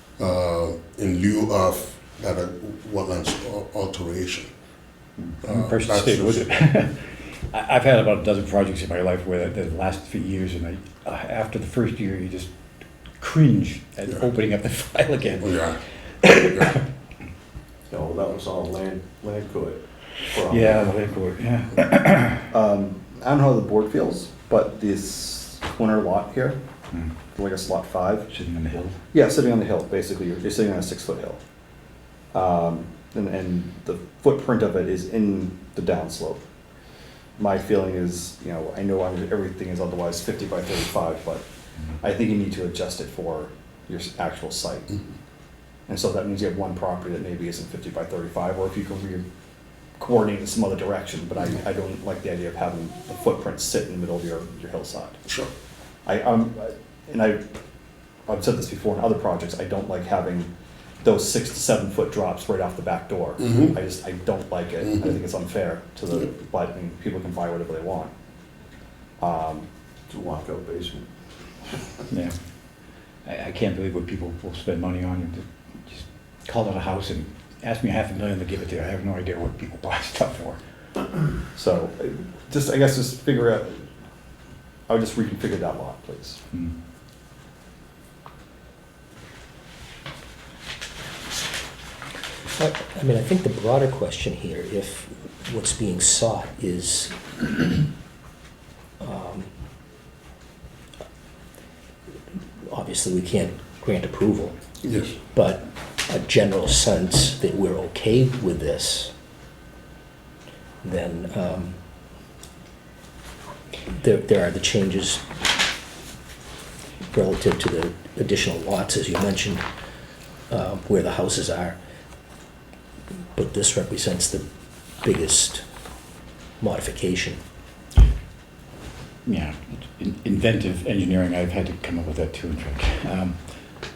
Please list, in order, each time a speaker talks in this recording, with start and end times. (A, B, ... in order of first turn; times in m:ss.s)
0:00.2-0:04.5 A
0:05.2-0:12.5 B
0:05.4-0:06.5 A
0:13.2-0:15.6 B
0:15.4-0:15.8 A
0:16.2-0:16.8 B
0:17.9-0:19.8 C
0:20.3-0:20.9 C
0:20.5-0:22.5 B
0:22.5-0:26.6 D
0:27.4-0:28.3 D
0:28.3-0:29.0 B
0:29.1-0:31.4 D
0:32.3-0:36.4 D
0:37.4-0:41.4 D
0:42.0-0:44.9 D
0:45.9-0:49.2 D
0:50.0-0:55.2 D
0:56.0-0:57.4 D
0:58.3-1:00.5 D
1:01.0-1:08.1 D
1:03.4-1:03.7 A
1:09.2-1:09.7 D
1:10.1-1:11.1 C
1:13.2-1:20.6 B
1:21.6-1:23.8 D
1:24.9-1:26.4 D
1:32.6-1:37.8 E
1:39.0-1:39.5 E
1:42.7-1:44.6 E
1:44.8-1:45.2 A
1:45.3-1:49.1 E
1:50.8-1:51.8 E
1:54.0-1:55.2 E
1:57.1-1:59.6 E
2:00.5-2:01.8 E
2:03.4-2:04.4 E
2:05.0-2:05.6 E
2:06.6-2:07.4 E
2:09.2-2:13.4 B